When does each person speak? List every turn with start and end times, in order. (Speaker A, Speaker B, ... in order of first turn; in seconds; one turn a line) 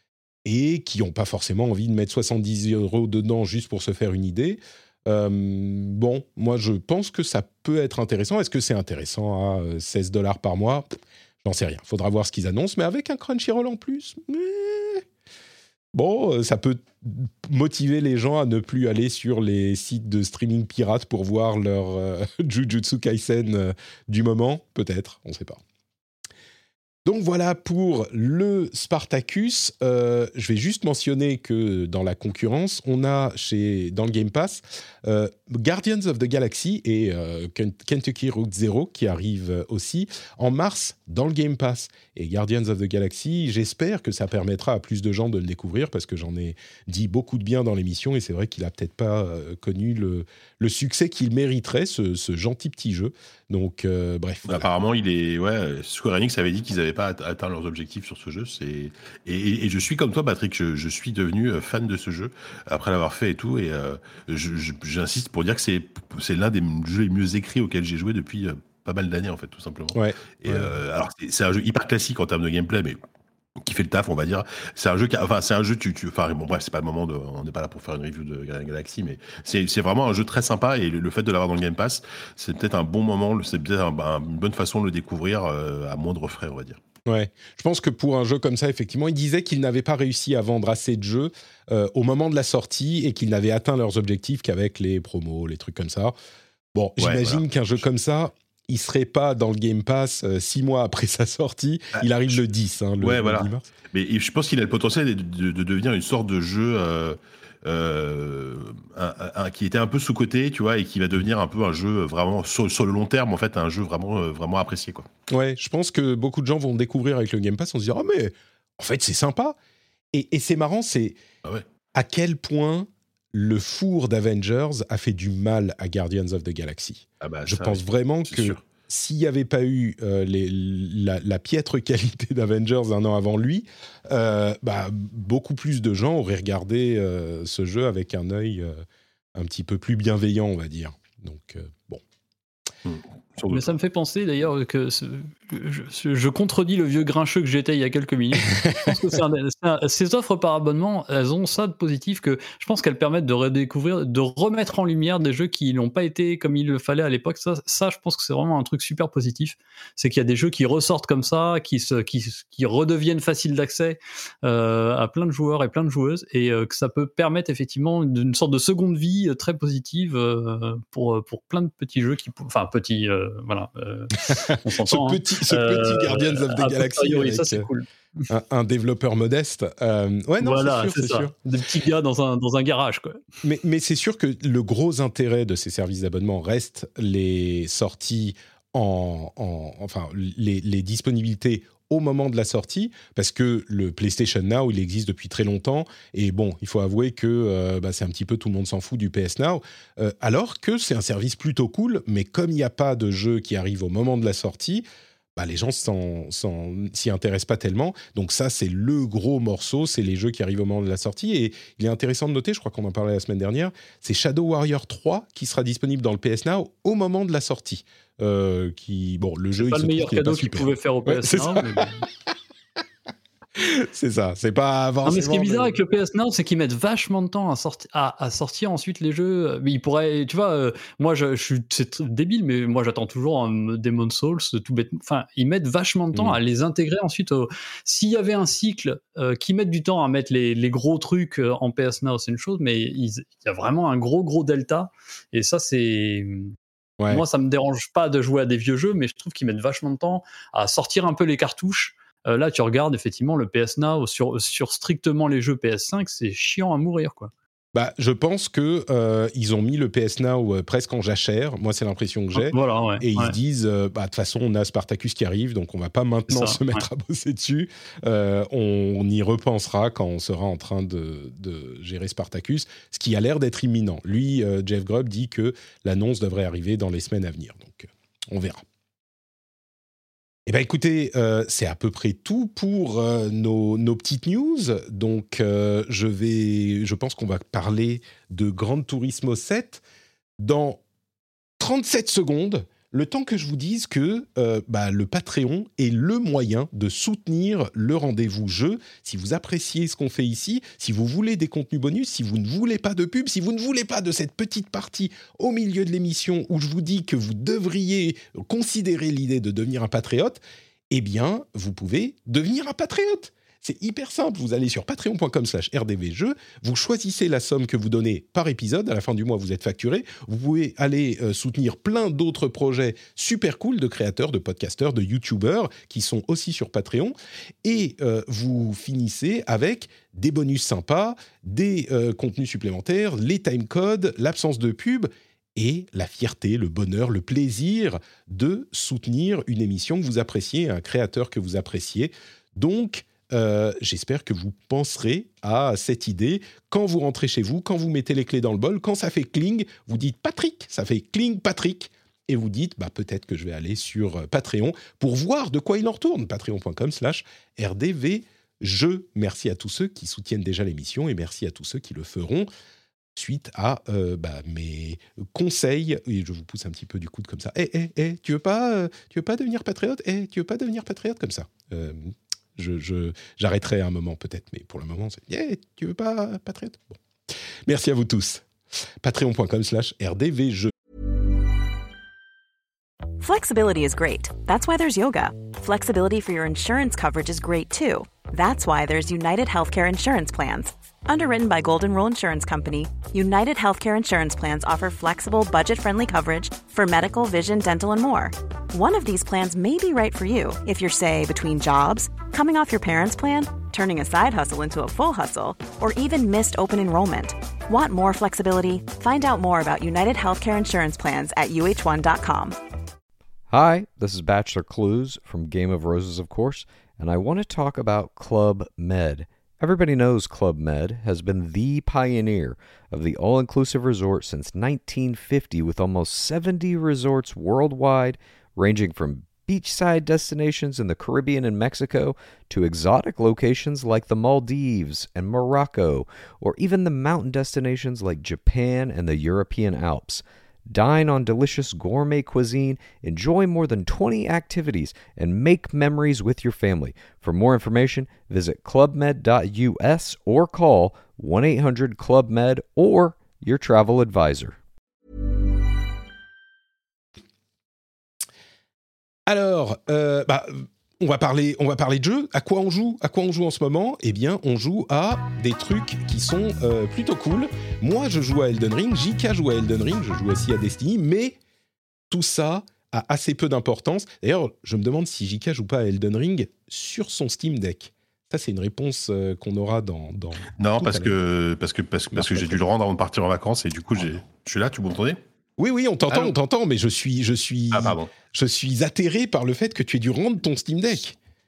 Speaker A: 0.4-10.9
Speaker A: 11.4-15.0
Speaker A: 15.9-25.6
Speaker A: 27.0-54.7
Speaker B: 54.5-73.0
Speaker A: 69.9-70.7
Speaker B: 73.6-86.8
Speaker A: 87.1-96.1
Speaker A: 96.7-103.7
Speaker B: 97.0-97.8
Speaker B: 101.9-102.4
Speaker B: 103.0-115.1
Speaker A: 115.3-119.6
Speaker A: 120.1-121.2
Speaker A: 121.9-138.8
Speaker B: 127.2-128.6
Speaker A: 139.3-142.0
Speaker B: 142.8-143.7
Speaker C: 143.5-178.2
Speaker A: 148.5-148.9
Speaker A: 174.8-177.7
Speaker A: 178.3-181.3
Speaker C: 180.4-183.2
Speaker A: 183.4-204.8
Speaker A: 205.4-221.9
Speaker C: 219.6-222.0
Speaker A: 223.6-225.7
Speaker C: 225.0-246.5
Speaker C: 247.1-257.3
Speaker A: 257.7-278.6
Speaker C: 262.3-263.4
Speaker C: 266.3-266.8
Speaker A: 280.4-289.8
Speaker A: 290.4-290.8
Speaker A: 291.6-310.4
Speaker A: 310.9-362.5
Speaker A: 363.1-377.0
Speaker A: 377.6-378.5
Speaker A: 379.0-380.7
Speaker D: 383.2-412.6
Speaker E: 413.5-454.6
Speaker A: 459.3-471.4
Speaker A: 472.1-481.1
Speaker B: 480.6-485.2
Speaker A: 482.1-482.6
Speaker A: 485.6-491.1
Speaker B: 486.1-486.3
Speaker B: 487.7-488.1